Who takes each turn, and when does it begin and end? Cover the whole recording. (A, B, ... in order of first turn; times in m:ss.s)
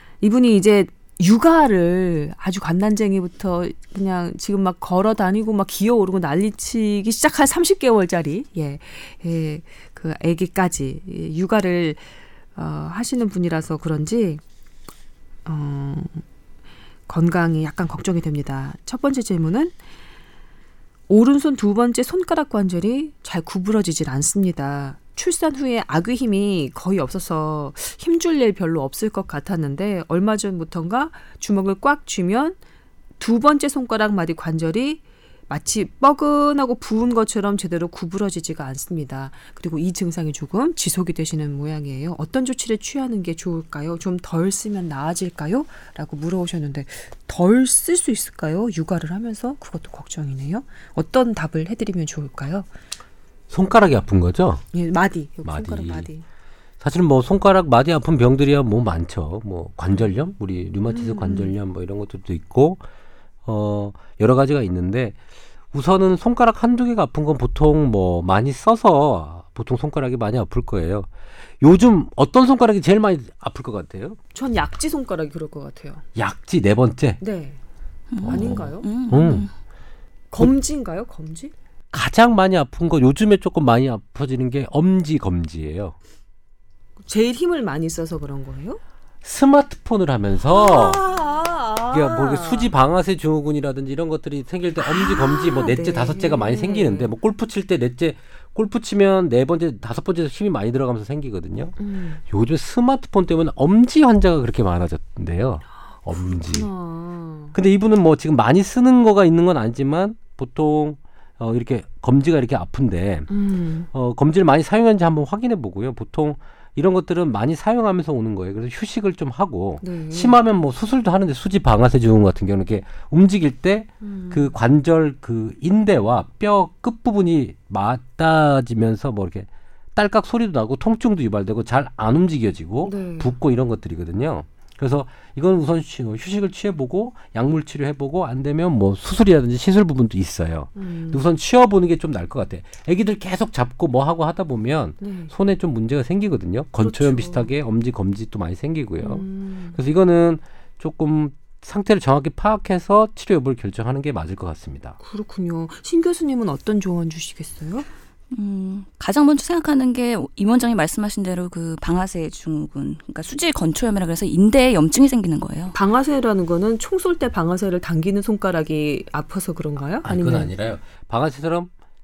0:00.2-0:12.0 A
0:12.6-0:14.4 A
0:15.5-0:16.2 A
0:17.1-0:19.7 A
0:21.1-0:32.6 A
0:33.2-0:52.7 A
0:53.5-0:54.6 B
0:54.7-0:56.2 A
0:55.4-0:56.1 B
0:56.8-1:02.8 B
1:00.9-1:01.6 A
1:03.5-1:05.2 B
1:05.7-1:11.1 B
1:11.6-1:14.2 B
1:14.3-1:16.0 A
1:16.2-1:17.2 B
1:17.2-1:17.6 A
1:18.1-1:19.5 C
1:18.2-1:19.5 B
1:18.2-1:18.9 A
1:20.3-1:21.5 A
1:21.9-1:26.0 B
1:27.0-1:28.8 A
1:29.2-1:31.0 B
1:30.5-1:32.7 A
1:31.9-1:41.8 B
1:34.8-1:37.1 A
1:41.8-1:42.2 A
1:42.3-1:46.7 B
1:46.2-1:47.6 A
1:47.5-1:53.3 B
1:53.3-1:53.9 A
1:53.9-2:35.0 B
1:59.8-2:00.4 A
2:04.0-2:04.6 A
2:12.8-2:13.3 A
2:20.8-2:21.2 A
2:25.0-2:25.3 A
2:26.8-2:27.5 A
2:29.0-2:29.8 A
2:35.0-2:37.9 A
2:38.3-2:45.8 C
2:45.7-2:50.5 A
2:50.0-2:51.7 B